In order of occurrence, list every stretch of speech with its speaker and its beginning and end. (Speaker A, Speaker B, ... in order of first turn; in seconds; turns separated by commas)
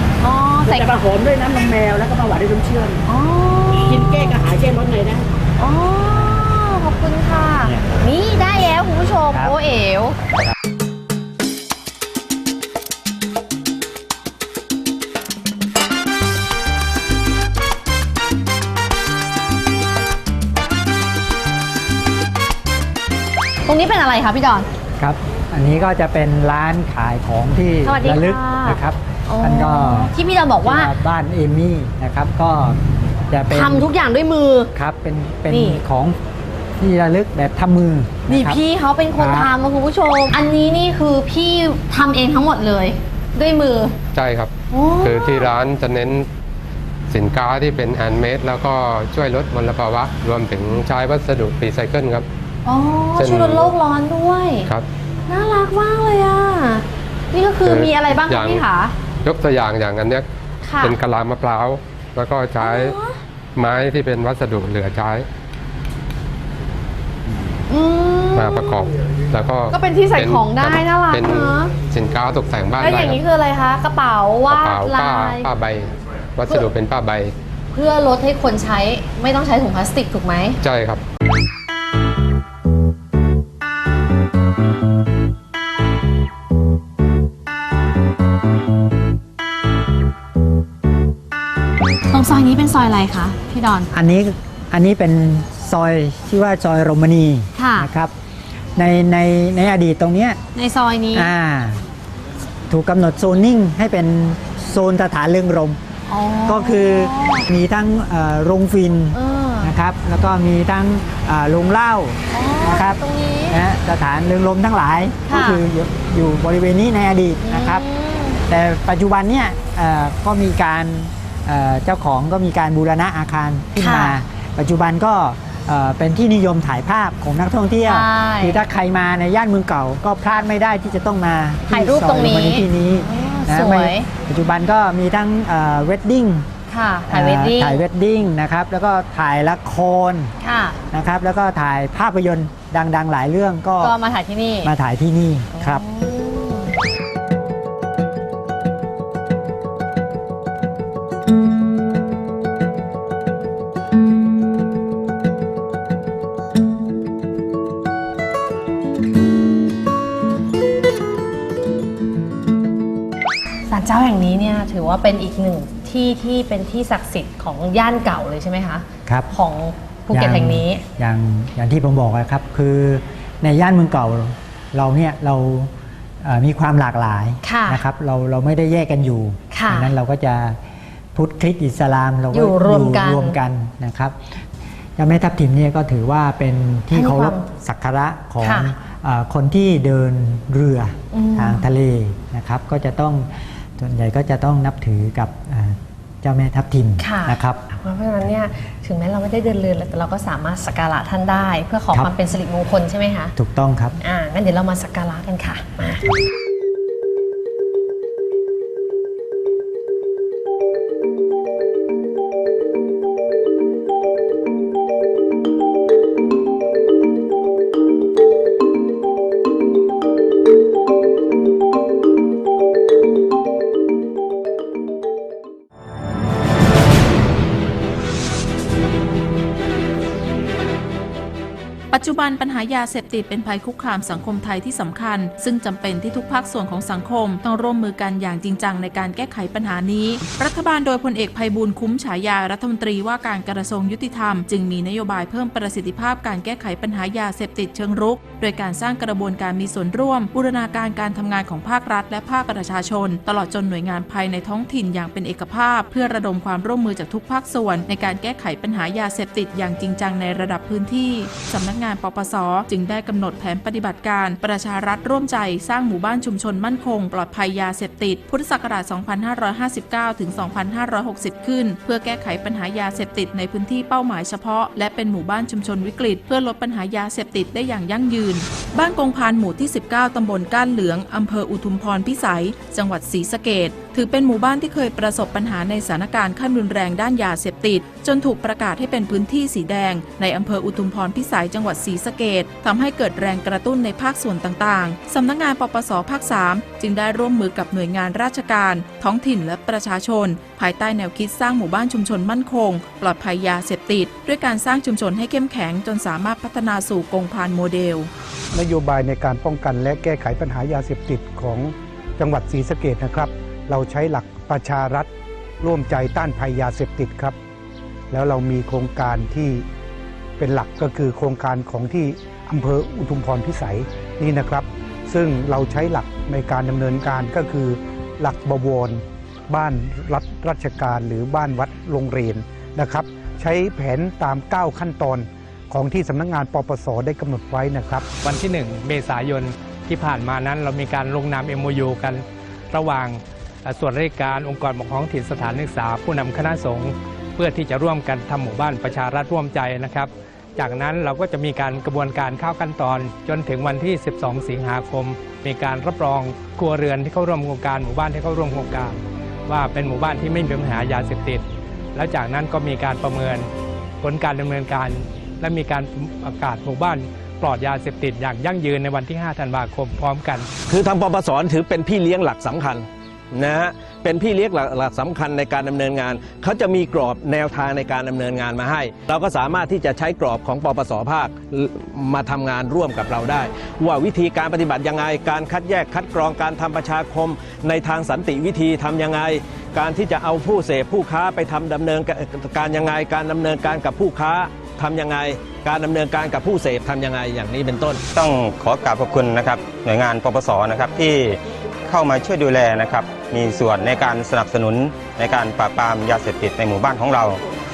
Speaker A: 0.2-0.9, Speaker B: 0.7-3.0, Speaker A: 3.0-4.4, Speaker B: 3.8-5.2, Speaker A: 5.6-10.2, Speaker C: 6.1-6.5, Speaker C: 7.6-7.9, Speaker C: 9.3-9.6, Speaker A: 23.7-24.7, Speaker C: 25.0-30.1, Speaker A: 27.8-30.9, Speaker C: 30.6-32.8, Speaker C: 33.3-33.9, Speaker A: 33.5-34.7, Speaker C: 34.7-36.1, Speaker A: 35.5-35.8, Speaker C: 36.8-38.6, Speaker A: 38.3-43.9, Speaker C: 39.2-39.5, Speaker D: 44.1-44.5, Speaker A: 44.7-45.5, Speaker D: 45.0-46.2, Speaker D: 47.1-52.2, Speaker A: 52.6-54.7, Speaker D: 53.1-53.7, Speaker A: 55.3-58.9, Speaker D: 57.6-58.6, Speaker D: 59.2-60.2, Speaker A: 60.6-61.0, Speaker D: 60.8-62.9, Speaker A: 62.6-63.2, Speaker D: 63.5-65.2, Speaker A: 67.7-68.9, Speaker D: 68.3-73.2, Speaker A: 69.7-71.7, Speaker A: 72.8-75.5, Speaker D: 74.5-77.3, Speaker A: 77.7-80.6, Speaker D: 80.6-81.0, Speaker A: 92.1-93.9, Speaker C: 93.9-98.1, Speaker A: 97.5-97.9, Speaker C: 98.8-100.4, Speaker A: 100.5-101.3, Speaker C: 101.1-101.8, Speaker C: 102.7-105.8, Speaker A: 106.1-107.5, Speaker C: 106.5-117.8, Speaker A: 109.1-109.7, Speaker A: 112.3-113.6, Speaker A: 115.2-115.6, Speaker A: 117.4-118.4, Speaker C: 118.5-136.5, Speaker A: 123.8-124.2, Speaker A: 127.8-128.6, Speaker A: 131.7-134.1, Speaker A: 136.7-137.8, Speaker C: 137.1-140.3, Speaker A: 140.4-140.8, Speaker C: 140.9-143.9, Speaker A: 143.8-144.7, Speaker C: 144.6-145.8, Speaker A: 145.5-146.7, Speaker A: 163.7-170.8, Speaker C: 169.1-169.3, Speaker C: 170.1-180.6, Speaker A: 177.4-177.8, Speaker A: 179.5-179.9, Speaker C: 181.1-184.2, Speaker A: 182.3-183.4, Speaker C: 185.0-197.6, Speaker A: 186.9-187.5, Speaker A: 188.4-188.7, Speaker A: 191.1-191.7, Speaker A: 197.0-203.3, Speaker C: 203.3-204.0, Speaker A: 204.0-206.1, Speaker E: 231.9-308.1, Speaker F: 308.5-315.1, Speaker F: 315.6-317.4, Speaker F: 318.1-319.6, Speaker F: 320.4-338.1, Speaker G: 338.2-361.4, Speaker G: 361.9-363.5, Speaker G: 364.0-370.5, Speaker H: 370.7-398.0, Speaker I: 398.1-407.4